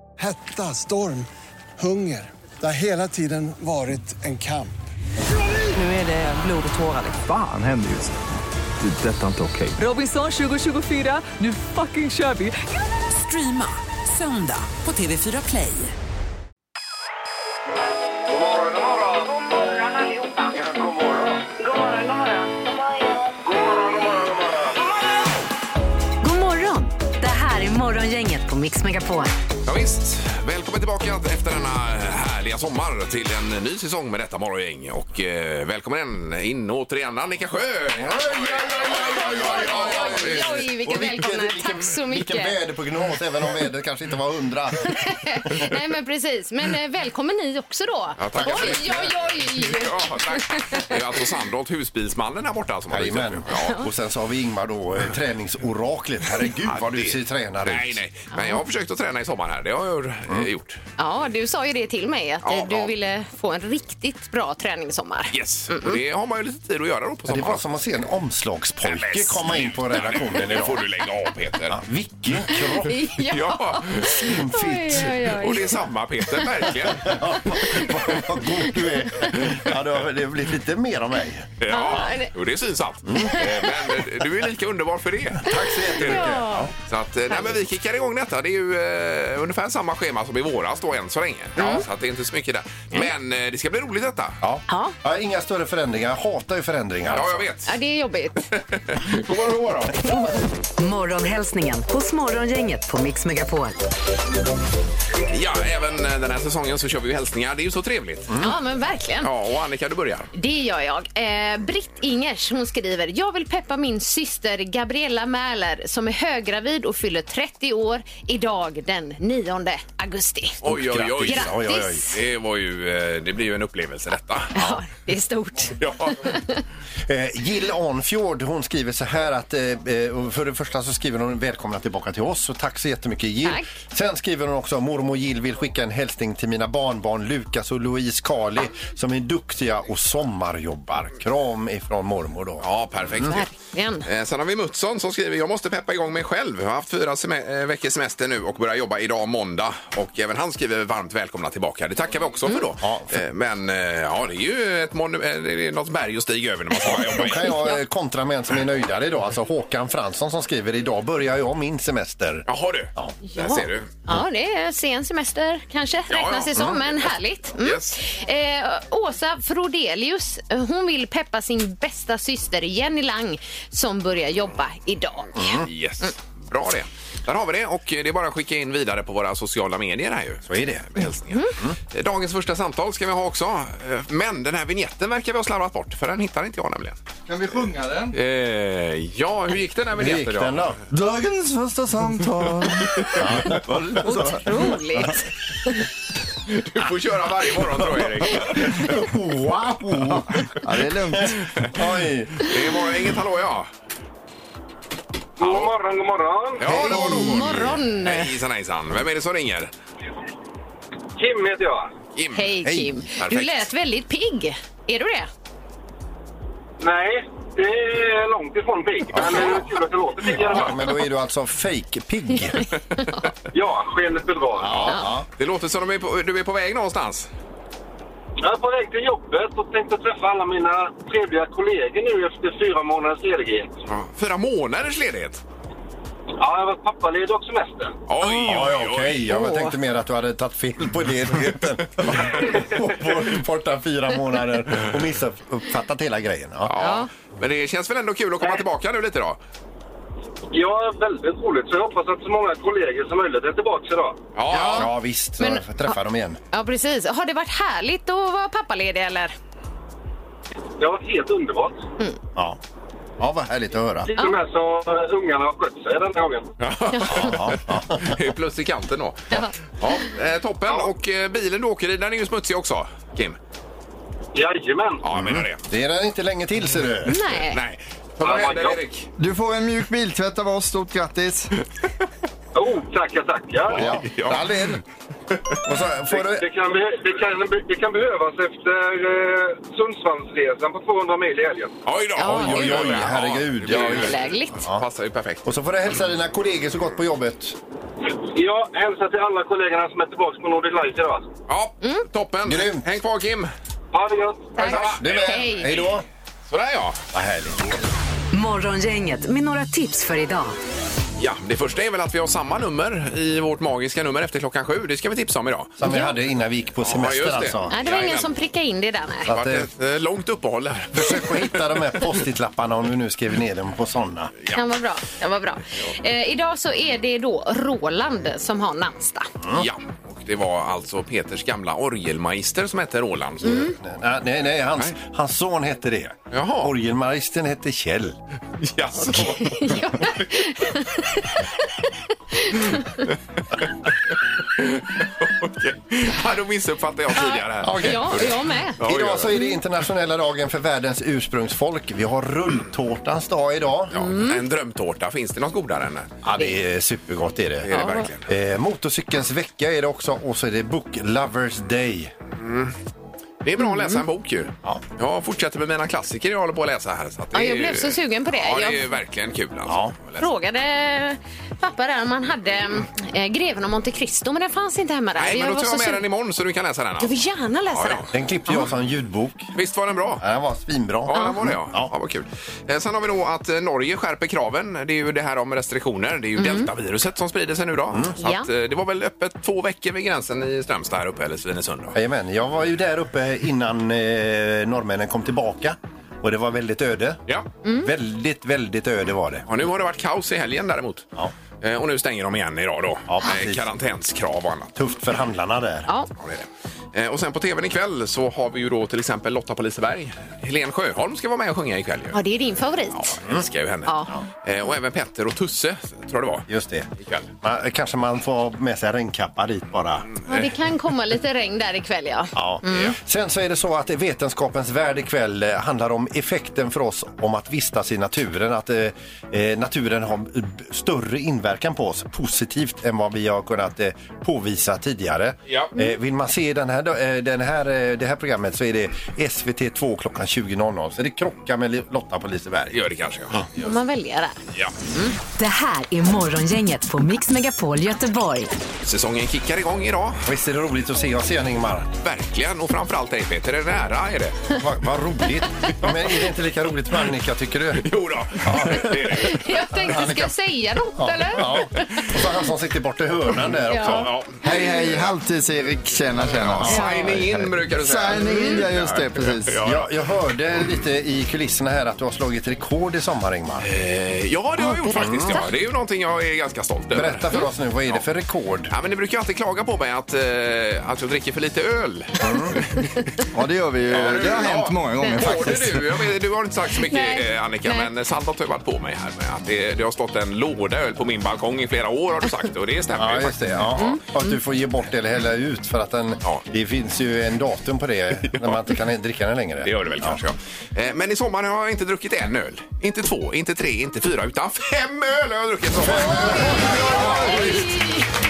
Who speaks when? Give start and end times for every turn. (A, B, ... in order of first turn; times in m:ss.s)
0:00.2-0:04.8 A
0:05.7-0:07.2 B
0:07.2-0:08.2 C
0:08.8-0:09.8 C
0:09.8-0:15.9 B
0:23.8-0:24.3 D
0:26.2-0:29.3 E
0:29.6-0:40.6 F
0:38.0-0:45.0 G
0:38.9-0:42.6 H
0:44.9-0:50.9 H
0:48.2-0:53.8 F
0:48.3-0:49.1 G
0:52.9-0:58.0 G
0:53.5-0:53.9 H
0:56.4-1:00.8 F
0:58.3-0:58.6 H
1:01.0-1:06.0 H
1:02.4-1:02.9 F
1:05.3-1:07.6 F
1:07.3-1:10.8 G
1:08.8-1:11.8 F
1:11.7-1:13.1 G
1:12.6-1:15.7 H
1:13.2-1:14.3 F
1:14.0-1:15.3 G
1:15.2-1:17.2 F
1:16.8-1:21.9 G
1:17.5-1:17.9 H
1:21.6-1:34.4 F
1:21.7-1:22.3 H
1:23.0-1:23.4 G
1:25.4-1:26.7 G
1:25.5-1:26.7 H
1:31.6-1:31.8 H
1:34.4-1:37.5 G
1:34.7-1:35.0 H
1:37.1-1:37.7 F
1:37.7-1:38.4 H
1:38.8-1:40.0 F
1:40.8-1:43.8 E
1:45.3-1:48.4 F
1:48.4-1:49.3 H
1:49.2-1:50.3 F
1:50.3-2:02.1 H
2:00.6-2:01.5 F
2:00.6-2:02.1 G
2:02.1-2:04.7 F
2:04.5-2:06.6 H
2:05.8-2:06.4 F
2:07.0-2:23.4 G
2:22.6-2:23.5 F
2:23.2-2:24.0 H
2:24.0-2:37.5 F
2:32.8-2:33.2 G
2:36.8-2:43.1 G
2:37.5-2:37.7 H
2:42.5-2:43.9 F
2:43.2-2:56.1 H
2:46.1-2:47.0 F
2:47.6-2:47.9 F
2:55.3-2:55.7 G
2:55.6-3:07.0 F
3:00.4-3:01.7 G
3:07.3-3:08.1 I
3:08.1-3:10.7 F
3:09.9-3:10.8 G
3:10.9-3:14.4 I
3:13.2-3:14.0 G
3:14.0-3:15.8 H
3:16.5-3:18.8 F
3:18.3-3:20.4 G
3:19.9-3:21.5 I
3:21.6-3:22.4 G
3:22.4-3:23.7 F
3:25.4-3:26.8 D
3:25.4-3:25.7 F
3:26.6-3:29.7 F
3:26.7-3:27.7 G
3:26.7-3:28.3 H
3:31.2-3:31.9 D
3:32.2-3:32.6 F
3:32.3-3:35.3 H
3:32.6-3:33.0 G
3:33.2-3:33.7 F
3:36.8-3:40.8 D
3:39.1-3:39.6 G
3:40.4-3:42.6 G
3:43.0-3:43.3 H
3:43.5-3:44.9 D
3:44.6-3:45.2 G
3:44.7-3:47.3 F
3:48.4-3:53.8 D
3:53.9-3:55.4 F
3:56.4-3:57.9 D
3:58.1-3:59.2 F
3:58.2-4:06.7 G
3:58.3-3:58.6 H
3:59.3-3:59.7 H
4:06.7-4:09.4 F
4:06.8-4:07.1 H
4:10.5-4:14.2 D
4:14.3-4:14.9 F
4:14.5-4:16.4 G
4:14.5-4:14.9 H
4:15.4-4:16.0 H
4:16.5-4:19.3 H
4:20.8-4:21.8 D
4:23.2-4:24.1 G
4:24.1-4:26.5 D
4:26.6-4:33.4 F
4:26.9-4:27.2 H
4:27.1-4:28.2 G
4:30.6-4:30.9 D
4:34.3-4:35.0 D
4:35.0-4:35.6 F
4:35.1-4:37.2 G
4:37.0-4:37.6 H
4:37.1-4:39.1 F
4:38.2-4:38.8 D
4:39.2-4:41.5 I
4:42.5-4:43.9 D
4:43.7-4:44.8 F
4:43.7-4:44.8 G
4:45.6-4:46.4 G
4:46.1-4:51.8 D
4:51.8-4:55.5 F
4:52.2-4:53.1 H
4:52.2-4:54.8 G
4:53.7-4:54.6 H
4:55.4-4:57.6 G
4:58.2-5:01.3 D
5:01.5-5:03.5 F
5:02.4-5:02.8 G
5:03.9-5:04.7 D
5:04.5-5:05.8 H
5:04.6-5:05.8 F
5:04.7-5:06.0 G
5:06.5-5:07.0 F
5:07.1-5:07.7 G
5:08.3-5:10.5 E
5:11.2-5:15.7 F
5:15.8-5:17.7 G
5:15.8-5:16.1 H
5:16.8-5:18.3 F
5:17.7-5:19.3 H
5:19.2-5:19.7 G
5:19.3-5:21.6 F
5:20.9-5:24.3 G
5:24.5-5:29.3 H
5:29.4-5:29.7 G
5:29.5-5:33.7 F
5:33.4-5:38.2 G
5:33.4-5:33.7 H
5:36.3-5:36.7 F
5:38.6-5:40.4 F
5:39.3-5:41.4 H
5:42.4-5:43.0 H
5:44.5-5:49.3 F
5:47.1-5:48.8 H
5:47.6-5:48.3 G
5:48.8-5:54.0 G
5:53.9-5:56.1 F
5:53.9-5:54.4 H
5:56.2-5:57.7 G
5:57.6-5:58.3 F
5:57.7-5:58.1 H
5:58.2-6:02.1 G
6:02.4-6:02.7 F
6:03.4-6:10.2 F
6:03.6-6:04.0 H
6:07.3-6:08.8 H
6:09.6-6:09.9 G
6:10.2-6:16.0 H
6:15.2-6:17.2 F
6:17.0-6:18.6 H
6:17.7-6:18.0 F
6:18.1-6:19.5 G
6:19.5-6:20.2 F
6:20.2-6:21.9 G
6:21.0-6:32.0 F
6:21.1-6:21.5 H
6:26.4-6:26.7 H
6:28.2-6:28.5 H
6:31.9-6:37.2 G
6:37.6-6:37.9 H
6:37.8-6:39.5 G
6:39.5-6:41.1 F
6:41.6-6:44.7 F
6:43.1-6:43.6 G
6:44.8-6:45.9 G
6:46.2-6:52.2 F
6:52.1-6:53.2 H
6:52.9-6:56.5 F
6:53.8-6:54.1 H
6:56.5-6:56.9 G
6:57.0-6:57.3 F
6:57.4-7:00.1 G
7:00.1-7:00.5 F
7:00.3-7:02.9 H
7:02.3-7:22.8 G
7:22.7-7:23.5 F
7:23.6-7:24.3 H
7:25.4-7:28.5 E
7:28.8-7:30.2 F
7:30.2-7:31.9 G
7:32.0-7:34.5 F
7:34.5-7:40.3 G
7:37.8-7:39.5 F
7:39.2-7:42.2 H
7:41.0-7:45.0 G
7:43.7-7:44.1 H
7:43.8-7:44.7 F
7:44.4-7:49.6 I
7:46.2-7:49.9 F
7:46.5-7:46.8 G
7:48.2-7:48.6 H
7:49.6-7:53.7 G
7:53.6-7:57.3 F
7:54.6-7:55.4 H
7:54.9-7:55.4 G
7:56.9-7:58.7 G
7:58.7-8:02.9 F
8:02.2-8:02.6 G
8:03.3-8:05.8 I
8:03.9-8:13.8 F
8:05.0-8:05.4 H
8:06.8-8:07.9 H
8:13.0-8:20.2 G
8:18.3-8:18.7 F
8:19.6-8:27.8 F
8:25.8-8:27.7 G
8:26.4-8:28.1 H